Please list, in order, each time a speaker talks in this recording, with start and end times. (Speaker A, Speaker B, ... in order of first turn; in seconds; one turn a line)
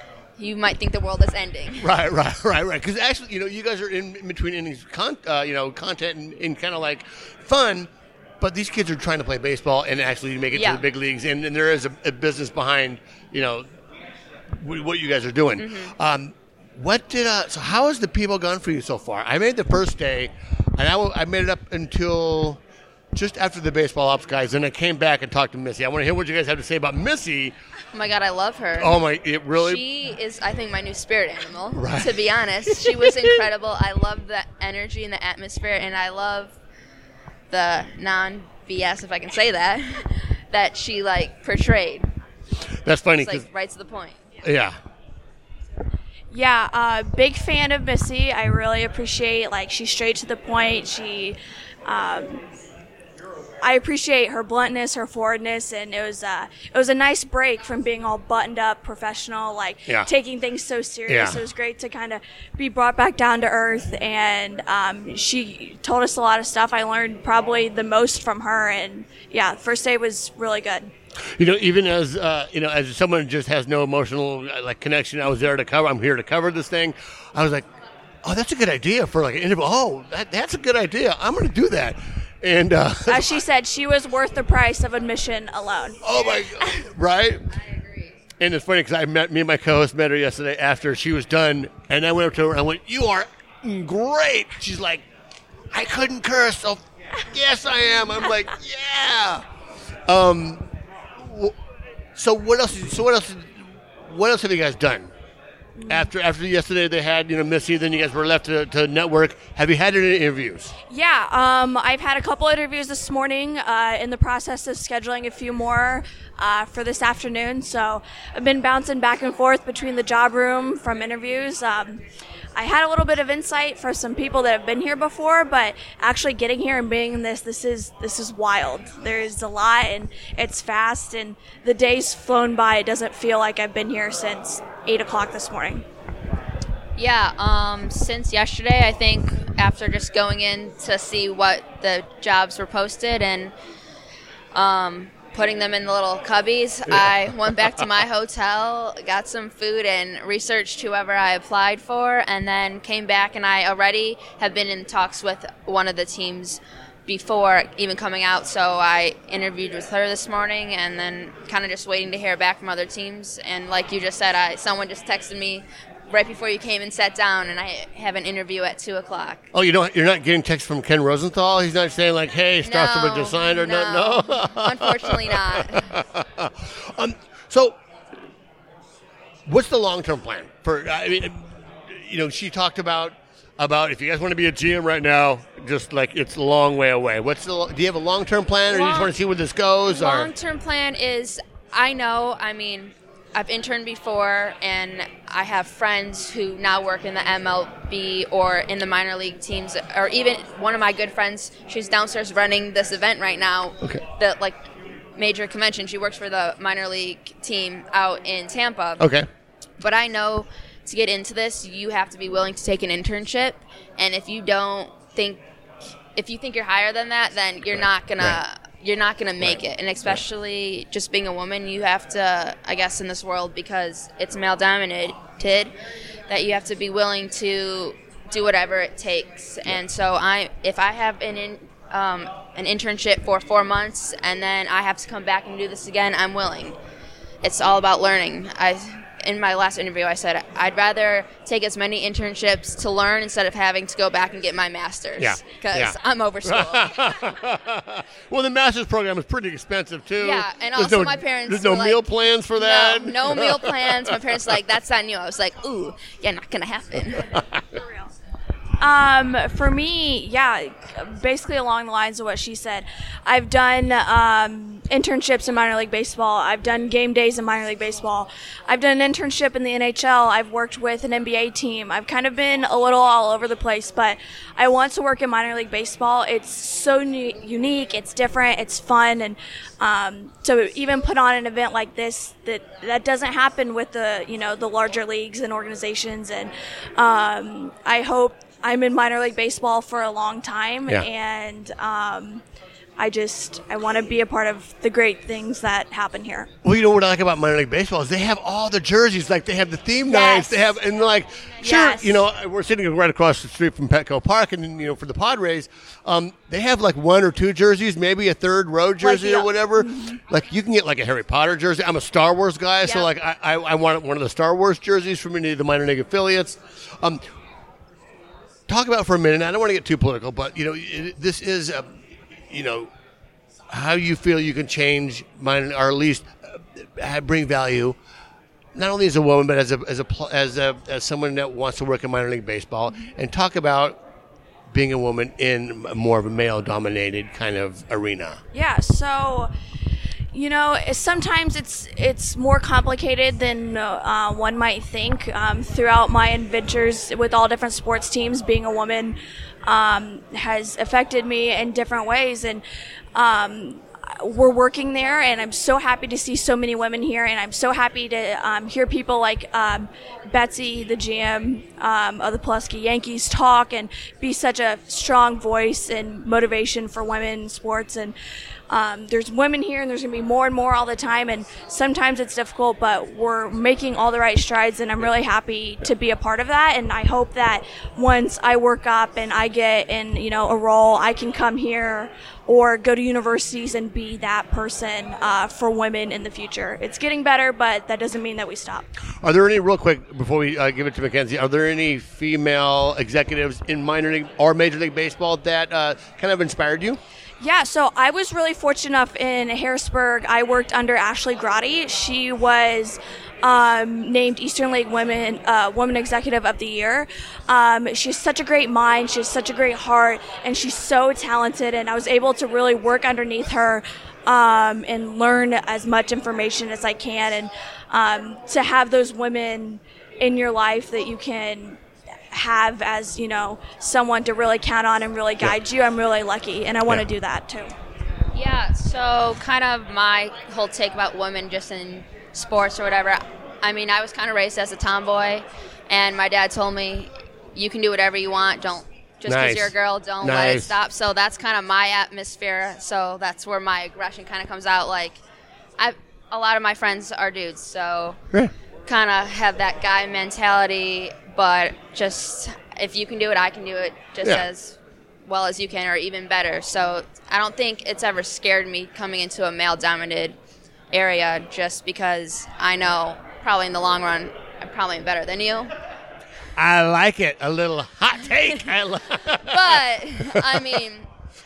Speaker A: 0.4-1.9
Speaker B: 1.8-7.9
Speaker B: 8.4-13.7
Speaker A: 10.5-10.8
Speaker B: 14.6-22.6
Speaker A: 15.6-15.9
Speaker B: 23.1-27.6
Speaker A: 27.9-29.0
Speaker B: 28.8-29.8
Speaker A: 29.6-36.5
Speaker B: 31.8-32.1
Speaker B: 32.7-33.4
Speaker A: 37.5-42.1
Speaker B: 42.9-43.5
Speaker A: 43.2-44.2
Speaker B: 44.4-44.8
Speaker C: 46.3-52.4
Speaker C: 53.6-70.9
Speaker B: 61.1-61.4
Speaker B: 71.4-77.7
Speaker B: 78.2-83.4
Speaker C: 83.1-86.0
Speaker B: 86.0-87.5
Speaker A: 86.1-86.5
Speaker A: 87.5-88.1
Speaker B: 88.4-95.0
Speaker B: 95.7-99.4
Speaker B: 100.1-100.7
Speaker B: 101.2-101.5
Speaker B: 102.2-103.5
Speaker B: 104.1-105.1
Speaker C: 105.8-106.1
Speaker B: 105.9-110.7
Speaker C: 110.9-122.0
Speaker C: 122.5-135.8
Speaker A: 137.0-143.5
Speaker A: 144.5-169.4
Speaker B: 169.5-177.8
Speaker A: 172.6-175.9
Speaker B: 179.5-190.3
Speaker A: 188.7-189.1
Speaker A: 189.9-204.6
Speaker A: 205.2-209.2
Speaker B: 209.0-209.3
Speaker A: 209.8-215.4
Speaker A: 216.2-225.7
Speaker B: 219.4-220.2
Speaker A: 226.3-236.8
Speaker A: 237.4-247.0
Speaker B: 245.2-254.0
Speaker A: 250.2-257.3
Speaker C: 258.8-292.4
Speaker C: 293.0-296.5
Speaker B: 296.6-317.2
Speaker C: 300.1-300.5
Speaker C: 301.6-302.2
Speaker C: 309.0-310.2
Speaker B: 318.7-321.9
Speaker B: 322.5-322.9
Speaker B: 323.7-326.3
Speaker B: 326.8-328.0
Speaker B: 328.8-334.0
Speaker B: 334.7-338.4
Speaker C: 338.5-339.5
Speaker C: 340.3-352.6
Speaker C: 353.1-368.1
Speaker C: 368.7-388.9
Speaker B: 389.2-397.0
Speaker C: 397.4-421.8
Speaker C: 422.3-427.7
Speaker A: 428.3-445.2
Speaker B: 439.3-440.7
Speaker A: 445.8-448.2
Speaker A: 448.9-460.4
Speaker A: 460.9-465.7
Speaker B: 466.6-469.8
Speaker A: 469.5-471.1
Speaker B: 470.3-470.6